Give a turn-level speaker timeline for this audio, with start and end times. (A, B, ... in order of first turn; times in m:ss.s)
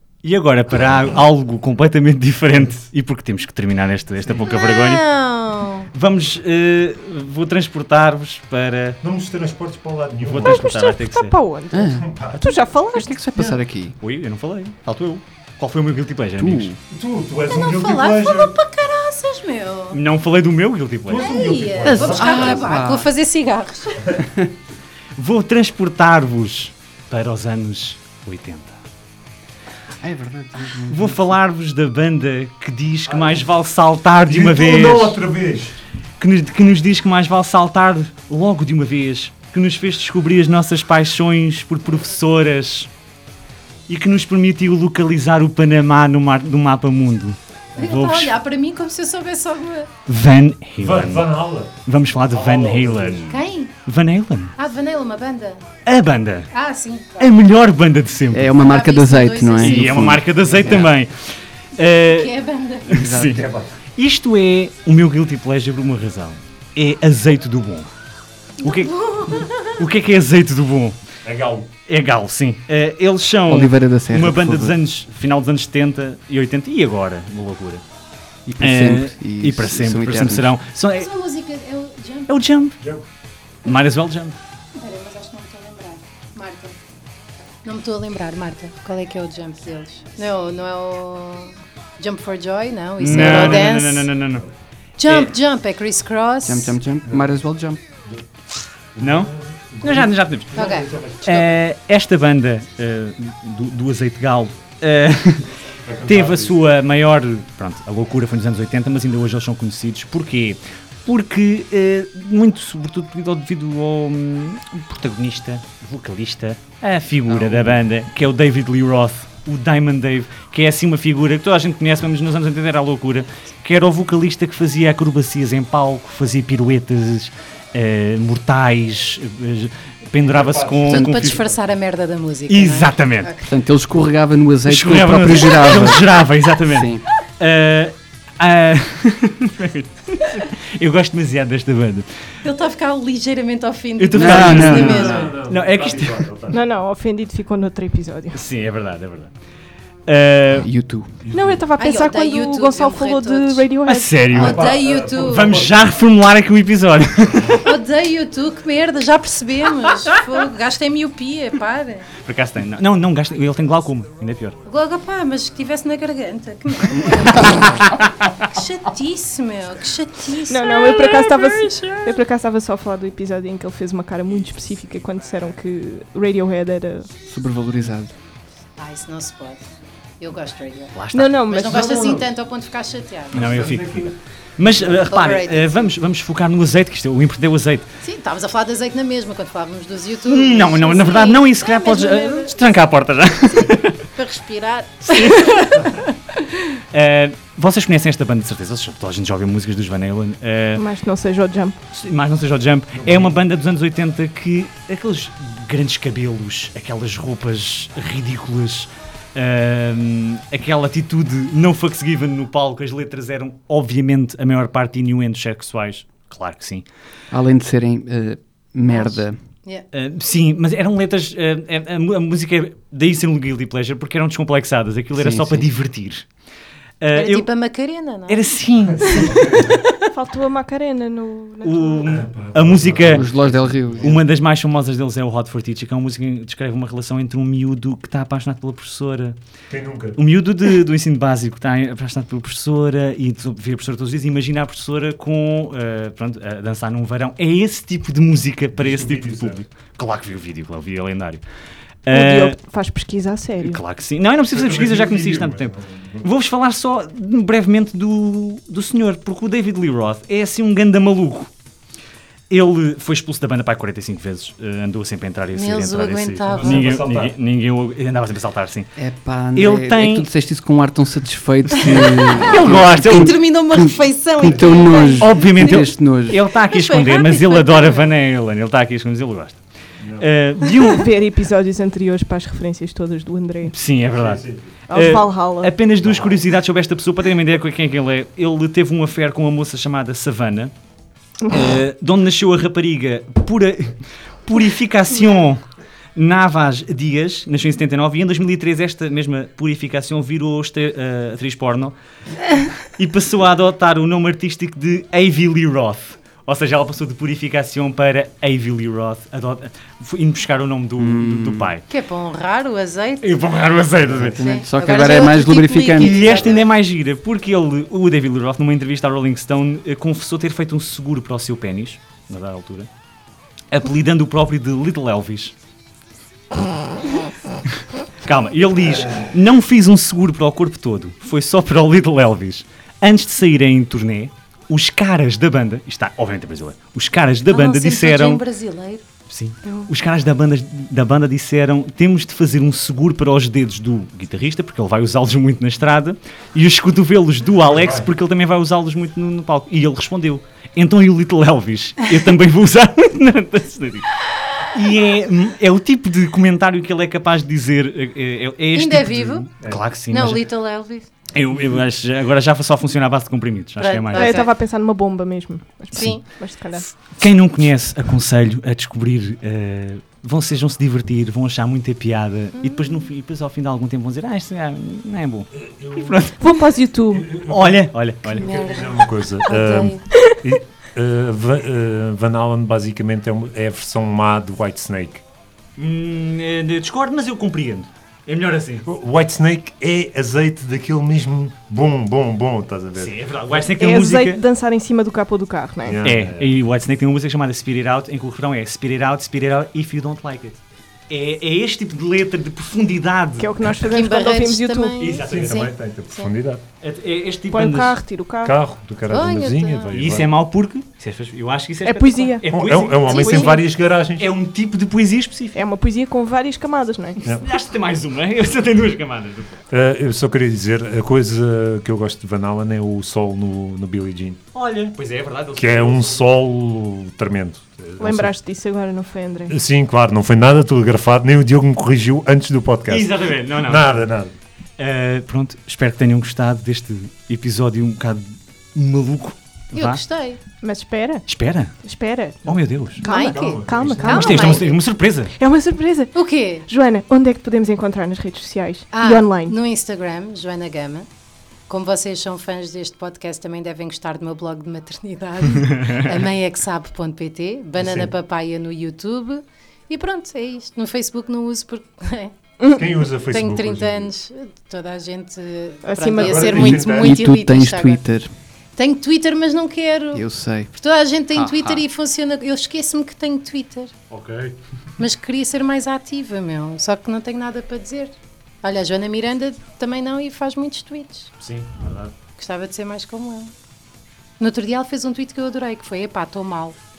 0:00.2-0:05.0 A
0:04.3-0:05.9 B
0:05.9-0:09.0 A
0:09.0-0:10.7 C
0:10.2-0:11.3 A
0:10.4-0:13.2 D
0:11.7-0:12.1 E
0:11.9-0:12.5 C
0:12.9-0:14.0 E
0:14.0-0:16.8 A
0:16.4-0:16.8 E
0:16.9-0:18.6 C
0:17.5-0:20.0 B
0:19.9-0:21.4 A
0:21.1-0:22.8 C
0:21.2-0:24.3 B
0:22.0-0:23.1 E
0:25.2-0:28.8 A
0:30.0-0:31.2 E
0:30.9-0:35.2 A
0:34.3-0:35.8 C
0:36.2-0:42.9 A
0:43.9-0:48.4 A
0:47.8-0:49.9 B
0:50.1-0:51.3 A
0:50.8-0:51.8 C
0:51.8-0:54.5 A
0:52.3-0:53.3 C
0:53.3-0:53.7 B
0:54.6-0:55.7 B
0:55.9-0:56.5 A
0:56.5-0:57.3 B
0:57.2-0:58.5 A
0:58.3-1:00.9 E
0:58.5-1:00.2 B
0:59.6-1:02.3 A
1:02.0-1:03.0 B
1:02.9-1:03.4 E
1:02.9-1:03.4 A
1:03.2-1:03.7 C
1:04.0-1:07.9 A
1:08.6-1:08.9 A
1:08.6-1:09.8 B
1:09.8-1:11.0 A
1:11.2-1:11.7 C
1:11.9-1:17.8 A
1:13.5-1:14.8 E
1:18.5-1:20.5 E
1:18.6-1:21.1 A
1:21.0-1:22.4 B
1:22.3-1:22.8 A
1:23.6-1:24.4 A
1:24.8-1:26.8 B
1:27.6-1:34.1 B
1:33.0-1:34.5 A
1:33.1-1:33.5 C
1:35.0-1:36.8 B
1:35.1-1:35.3 A
1:36.4-1:37.8 E
1:37.0-1:37.3 C
1:39.0-1:41.6 C
1:39.0-1:40.6 A
1:40.6-1:40.9 B
1:41.2-1:45.5 A
1:45.8-1:46.6 C
1:46.1-2:11.4 A
2:10.2-2:11.6 C
2:10.9-2:11.3 E
2:10.9-2:13.5 B
2:12.5-2:13.4 A
2:13.4-2:16.1 E
2:14.7-2:22.1 A
2:16.6-2:17.0 E
2:22.4-2:25.4 B
2:24.0-2:26.2 A
2:24.1-2:25.2 E
2:24.4-2:26.6 C
2:26.5-2:28.4 D
2:28.3-2:29.3 A
2:30.1-2:30.7 A
2:30.6-2:31.2 E
2:31.3-2:31.6 C
2:31.3-2:34.2 D
2:31.8-2:33.7 B
2:33.8-2:37.7 A
2:34.3-2:35.5 B
2:34.3-2:35.8 C
2:37.6-2:42.1 B
2:42.2-2:44.6 A
2:44.7-2:52.2 B
2:47.4-2:48.2 A
2:50.5-2:57.1 D
2:57.3-2:58.1 E
2:58.8-2:59.6 B
3:00.2-3:03.6 B
3:01.0-3:02.2 A
3:01.1-3:02.1 D
3:01.9-3:02.2 C
3:03.3-3:07.9 A
3:03.3-3:04.1 C
3:04.7-3:05.1 C
3:05.1-3:05.9 B
3:08.0-3:12.8 B
3:10.2-3:14.0 A
3:13.5-3:16.8 B
3:15.0-3:15.6 A
3:16.9-3:20.8 A
3:20.8-3:21.8 D
3:21.9-3:36.9 A
3:23.0-3:23.3 C
3:37.3-3:39.4 E
3:38.9-3:39.8 B
3:39.9-3:46.3 A
3:45.2-3:45.7 E
3:47.0-3:47.5 A
3:47.1-3:48.4 B
3:48.3-3:49.4 A
3:48.9-3:49.7 C
3:49.1-3:49.9 B
3:50.1-3:52.2 D
3:51.6-3:53.3 A
3:52.1-3:54.2 C
3:53.0-3:54.2 E
3:54.0-3:59.4 A
3:59.7-4:00.2 C
4:00.2-4:11.4 A
4:08.8-4:09.6 C
4:12.1-4:12.6 A
4:12.1-4:13.8 D
4:13.6-4:21.5 A
4:14.5-4:16.3 C
4:22.5-4:28.9 A
4:25.5-4:26.9 B
4:26.5-4:27.3 C
4:29.0-4:36.4 E
4:29.6-4:30.3 A
4:31.8-4:33.4 A
4:32.2-4:35.5 B
4:35.2-4:39.6 A
4:36.6-4:38.1 B
4:40.0-4:40.3 C
4:40.2-4:41.1 A
4:40.9-4:43.7 D
4:43.7-4:50.7 A
4:44.1-4:44.7 C
4:44.9-4:45.7 D
4:51.5-4:55.6 A
4:56.2-5:02.0 A
5:02.9-5:11.8 A
5:11.0-5:11.7 E
5:11.9-5:13.4 B
5:13.2-5:14.6 A
5:14.1-5:16.2 E
5:14.4-5:16.6 B
5:16.0-5:22.9 A
5:23.7-5:25.6 A
5:28.2-5:38.4 A
5:37.5-5:39.0 B
5:39.3-5:54.1 A
5:47.7-5:48.1 C
5:54.7-6:00.4 A
5:58.7-5:59.5 B
6:00.1-6:01.1 B
6:01.3-6:04.4 A
6:03.8-6:04.5 B
6:04.1-6:06.9 D
6:05.9-6:06.3 B
6:07.0-6:16.4 A
6:15.5-6:16.3 C
6:16.4-6:17.3 D
6:17.1-6:25.2 C
6:17.4-6:18.5 A
6:18.2-6:20.0 B
6:25.8-6:28.9 A
6:28.9-6:33.2 C
6:33.0-6:34.4 A
6:33.8-6:36.0 D
6:35.8-6:36.6 C
6:36.0-6:43.5 A
6:43.4-6:45.1 D
6:43.8-6:46.3 B
6:45.0-6:45.7 A
6:45.2-6:46.6 C
6:46.8-6:48.0 A
6:47.5-6:48.6 D
6:48.4-6:50.3 C
6:49.1-6:50.0 B
6:49.9-6:53.3 A
6:51.8-6:52.5 D
6:52.5-6:54.3 C
6:53.1-6:53.6 D
6:53.1-6:53.6 B
6:54.2-6:55.6 A
6:55.6-6:57.2 D
6:57.2-6:59.6 A
6:59.7-7:04.4 C
7:04.5-7:06.2 A
7:05.6-7:08.3 C
7:08.0-7:09.6 D
7:09.5-7:14.4 C
7:12.9-7:14.1 A
7:14.8-7:20.0 A
7:19.7-7:20.4 B
7:20.6-7:21.2 D
7:21.3-7:21.8 A
7:21.8-7:24.3 D
7:22.4-7:23.0 A
7:23.0-7:24.8 B
7:23.1-7:24.6 C
7:24.0-7:25.3 A
7:25.4-7:26.1 D
7:26.1-7:26.7 B
7:26.7-7:29.6 D
7:28.9-7:31.1 B
7:31.7-7:48.0 B
7:37.8-7:38.1 C
7:42.7-7:44.1 C
7:45.8-7:47.0 D
7:46.2-7:47.2 C
7:46.7-7:48.3 E
7:48.8-7:53.9 B
7:50.1-7:50.7 E
7:54.1-7:54.6 A
7:55.0-8:01.3 B
8:01.4-8:02.1 A
8:02.4-8:03.5 B
8:04.4-8:06.8 B